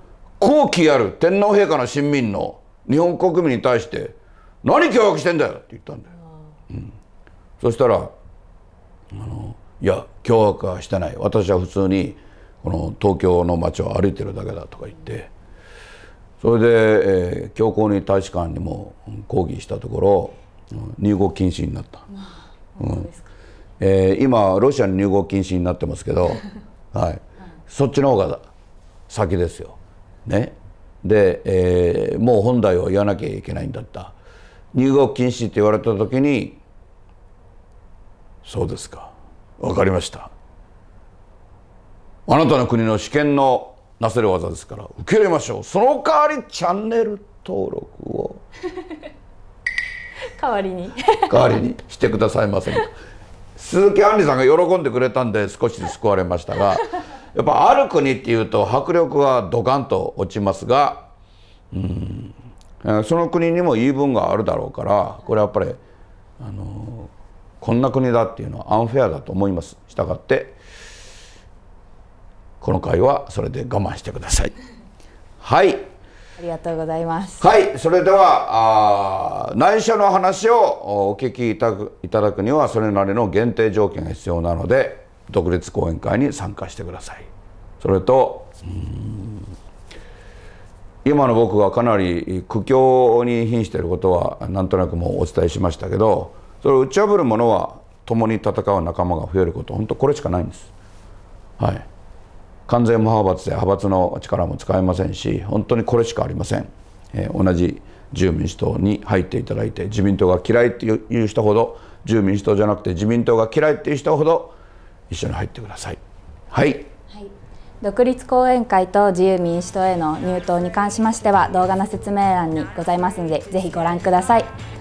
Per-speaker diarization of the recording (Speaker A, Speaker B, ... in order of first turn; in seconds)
Speaker A: 0.4-6.1, 7.6-8.1, 9.1-15.3, 16.4-22.1, 22.8-23.1, 23.8-28.4, 29.1-34.1, 34.7-36.6, 38.4-40.3, 42.3-48.4, 51.3-53.0, 53.6-61.1, 61.7-65.8, 66.4-70.6, 72.6-74.5, 75.4-75.8, 77.4-87.3, 87.8-89.5, 91.0-100.7, 101.6-101.9, 102.7-114.5, 115.1-116.9
Speaker B: 22.8-23.3, 50.4-51.4, 76.4-77.5, 117.8-124.5